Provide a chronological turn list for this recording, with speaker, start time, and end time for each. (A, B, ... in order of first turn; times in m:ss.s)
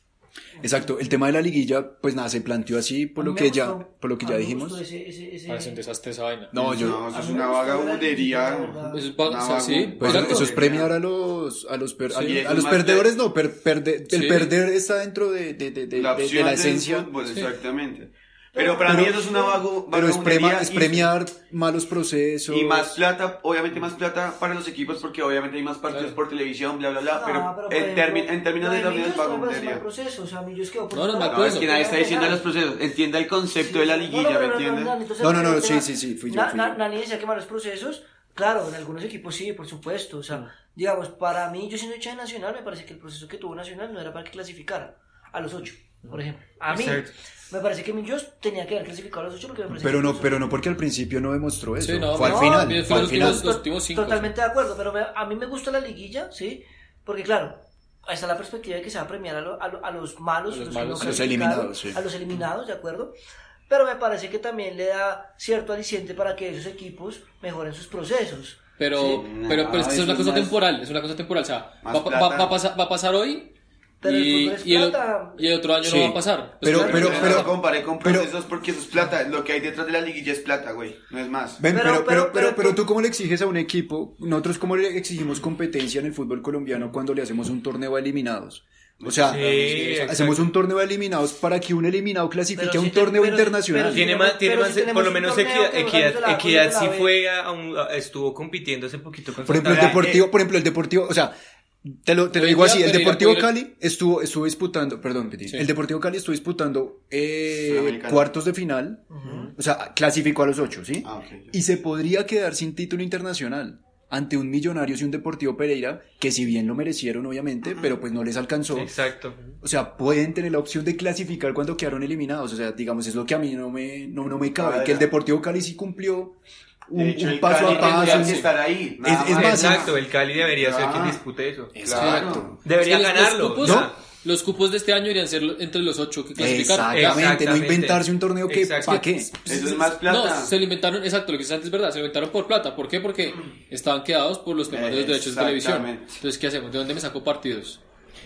0:00.6-0:04.8 A
0:03.2-0:05.8 B
0:05.5-0:06.5 C
0:06.5-0:07.0 A
0:06.6-0:10.9 D
0:06.8-0:09.1 B
0:08.8-0:10.5 C
0:10.0-0:17.1 A
0:12.1-0:13.1 D
0:14.1-0:14.5 C
0:15.9-0:21.1 D
0:18.5-0:19.6 B
0:18.8-0:19.2 A
0:19.9-0:23.0 A
0:22.5-0:29.8 D
0:25.9-0:26.2 C
0:27.1-0:32.4 B
0:30.9-0:31.9 C
0:31.3-0:34.9 D
0:33.6-0:50.4 B
0:35.2-0:36.8 A
0:46.7-0:47.1 E
0:49.7-0:53.5 A
0:51.8-0:54.3 C
0:52.2-1:03.1 B
1:00.5-1:01.3 C
1:01.0-1:02.0 A
1:03.7-1:09.2 B
1:08.8-1:17.5 C
1:09.0-1:10.5 D
1:11.8-1:12.5 D
1:14.0-1:15.4 B
1:15.8-1:18.3 A
1:16.7-1:21.6 D
1:21.6-1:34.1 A
1:21.7-1:22.8 B
1:29.0-1:29.8 D
1:29.2-1:30.4 E
1:32.6-1:37.1 B
1:33.9-1:40.1 E
1:39.4-1:58.9 A
1:39.7-1:40.3 D
1:42.3-1:43.5 C
1:47.6-1:48.3 D
1:49.1-1:49.5 B
1:51.0-1:51.6 D
1:58.7-1:59.5 E
1:59.6-2:06.4 A
2:04.6-2:05.1 D
2:06.9-2:08.5 A
2:06.9-2:11.2 D
2:07.5-2:08.5 C
2:09.0-2:09.9 A
2:09.3-2:11.7 E
2:11.7-2:12.6 A
2:11.8-2:12.6 D
2:11.9-2:17.3 C
2:12.6-2:13.9 E
2:13.6-2:13.9 A
2:16.4-2:19.3 A
2:16.9-2:19.1 E
2:19.4-2:27.8 C
2:19.4-2:20.5 D
2:24.7-2:26.2 D